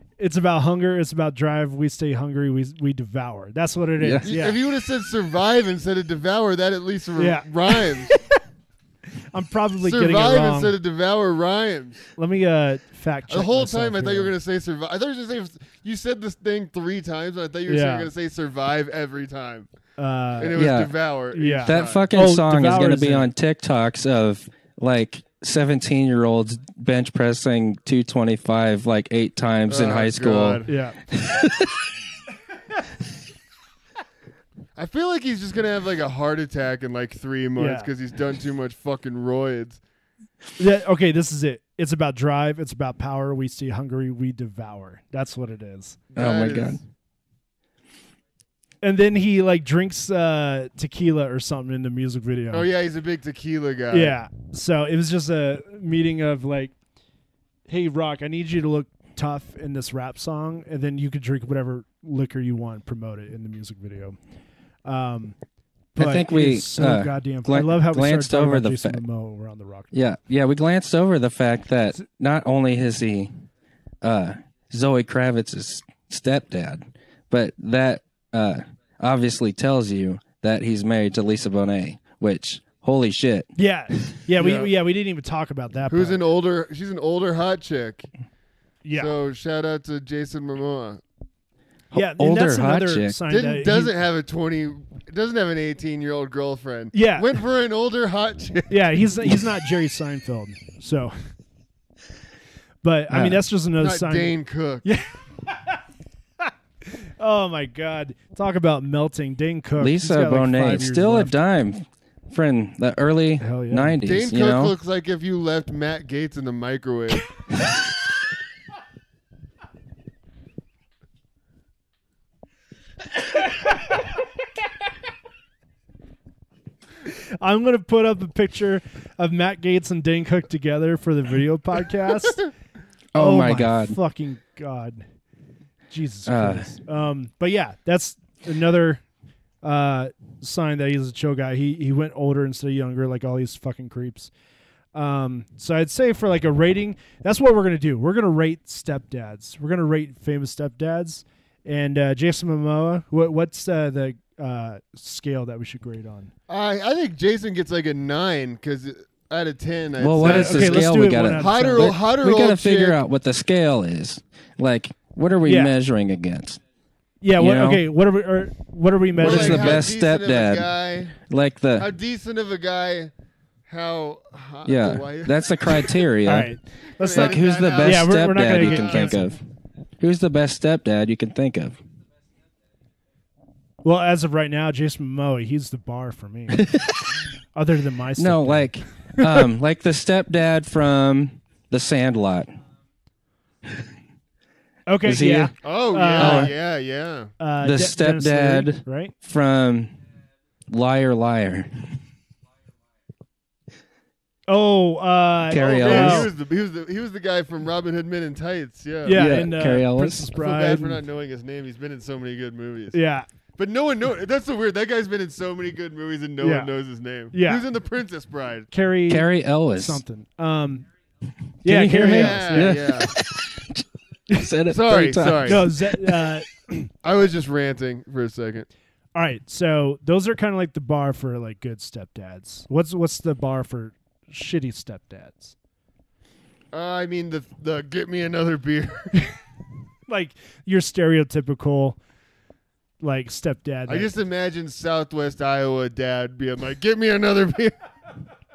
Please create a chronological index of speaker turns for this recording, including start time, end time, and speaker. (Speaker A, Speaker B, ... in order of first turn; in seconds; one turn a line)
Speaker A: 0.2-4.6
Speaker B: 4.0-4.3
Speaker C: 4.2-8.2
Speaker A: 7.2-8.1
Speaker A: 9.2-10.7
Speaker C: 9.8-12.1
Speaker A: 12.2-14.3
Speaker C: 13.3-19.7
Speaker A: 17.7-18.1
Speaker A: 20.0-20.6
Speaker C: 20.4-22.1
Speaker B: 20.5-20.9
Speaker A: 21.3-23.3
Speaker B: 21.6-31.9
Speaker C: 29.7-30.7
Speaker A: 30.7-31.0
Speaker C: 34.8-39.8
Speaker A: 37.6-37.9
Speaker A: 40.6-46.0
Speaker C: 46.1-46.8
Speaker B: 46.1-46.8
Speaker A: 48.8-52.6
Speaker C: 52.5-54.2
Speaker A: 53.9-56.7
Speaker A: 57.7-64.2
Speaker A: 64.8-65.3
Speaker A: 65.9-69.9
Speaker B: 66.0-69.0
Speaker B: 69.9-73.3
Speaker B: 74.0-83.5
Speaker A: 83.5-86.2
Speaker C: 84.4-84.7
Speaker C: 85.9-88.1
Speaker A: 88.8-89.1
Speaker C: 88.9-91.0
Speaker B: 91.9-93.2
Speaker A: 91.9-93.9
Speaker C: 93.3-99.4
Speaker A: 96.9-97.3
Speaker A: 98.7-101.2
Speaker A: 102.8-104.3
Speaker B: 103.1-103.4
Speaker C: 103.8-104.8
Speaker A: 104.8-105.8
Speaker A: 106.4-111.3
Speaker B: 109.8-114.7
Speaker A: 113.4-114.0
Speaker C: 114.0-117.3
Speaker A: 127.0-132.5
Speaker B: 133.1-134.0
Speaker A: 133.2-135.0
Speaker A: 135.9-139.0
Speaker B: 136.2-136.7
Speaker A: 139.6-144.3
Speaker A: 144.9-156.3
Speaker C: 156.5-163.0
Speaker B: 160.0-166.6
Speaker A: 160.2-161.9
Speaker A: 165.4-165.7
Speaker A: 167.2-169.8
Speaker B: 167.4-167.8
Speaker B: 169.2-171.9
Speaker C: 169.2-171.2
Speaker C: 171.8-173.1
Speaker C: 173.7-175.4
Speaker B: 174.7-176.5
Speaker A: 176.2-179.3
Speaker C: 177.0-179.2
Speaker B: 177.1-179.4
Speaker B: 180.0-181.8
Speaker A: 183.8-186.7
Speaker B: 186.5-187.2
Speaker A: 187.5-189.4
Speaker B: 188.2-192.5
Speaker A: 194.9-196.5
Speaker B: 195.0-195.5
Speaker C: 195.6-197.3
Speaker B: 196.2-196.5
Speaker A: 197.4-199.1
Speaker B: 197.6-199.9
Speaker B: 200.7-202.0
Speaker A: 204.5-206.3
Speaker B: 205.5-206.3
Speaker C: 205.5-209.3
Speaker A: 209.0-211.0
Speaker B: 209.1-210.3
Speaker C: 210.3-213.0
Speaker A: 212.9-213.3
Speaker C: 213.6-218.7
Speaker A: 216.4-216.7
Speaker A: 217.3-217.6
Speaker A: 218.7-220.9
Speaker B: 219.1-220.0
Speaker B: 221.6-226.3
Speaker A: 221.6-222.8
Speaker C: 222.0-223.1
Speaker C: 224.7-225.7
Speaker A: 225.4-226.9
Speaker C: 227.0-228.7
Speaker A: 229.1-235.5
Speaker C: 236.7-239.3
Speaker A: 240.1-242.0
Speaker A: 243.0-244.1
Speaker C: 243.9-247.8